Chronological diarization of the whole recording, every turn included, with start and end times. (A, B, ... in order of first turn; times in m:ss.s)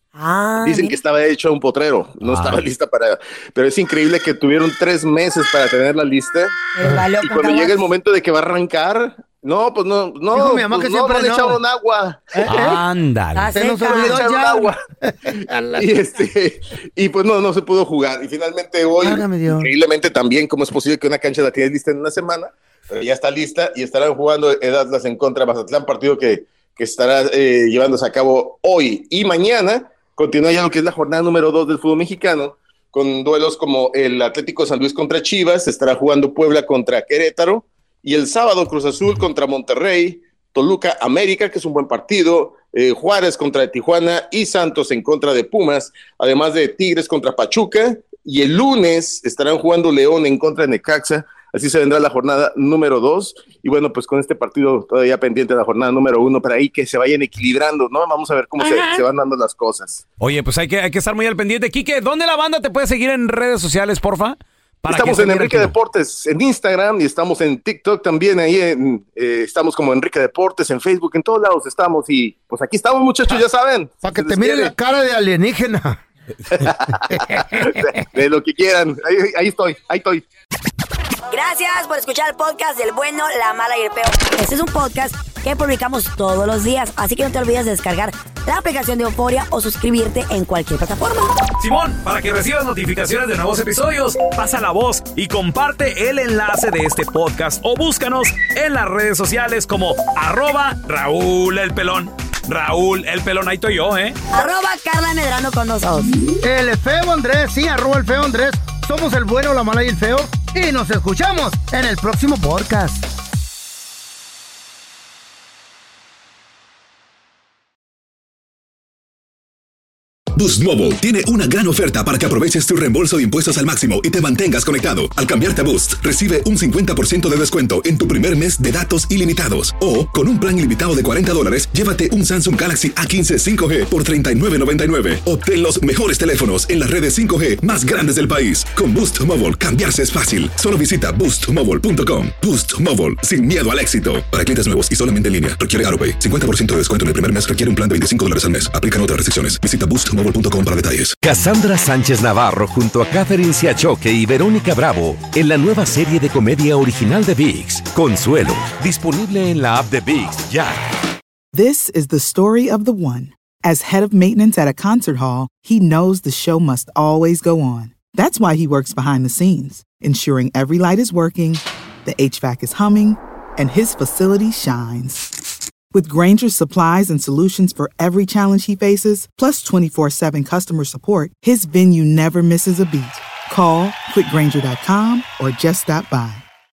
0:00.1-0:01.0 A
0:00.6-0:06.5 B
0:02.2-0:02.7 C
0:06.7-0:07.8 A
0:07.1-0:12.4 B
0:10.3-0:11.6 D
0:12.3-0:12.8 D
0:12.4-0:13.5 C
0:13.3-0:14.2 A
0:13.5-0:16.0 D
0:13.9-0:14.8 B
0:15.7-1:00.0 B
0:19.0-0:19.7 D
1:00.2-1:05.7 C
1:04.9-1:14.7 B
1:14.0-1:16.0 D
1:16.5-1:20.2 B
1:16.9-1:18.0 D
1:21.3-1:31.4 A
1:31.6-1:44.2 C
1:44.3-1:46.2 A
1:46.3-1:53.0 D
2:00.3-2:31.2 E
2:31.2-2:40.8 F
2:41.5-2:55.4 G
2:55.9-3:06.4 G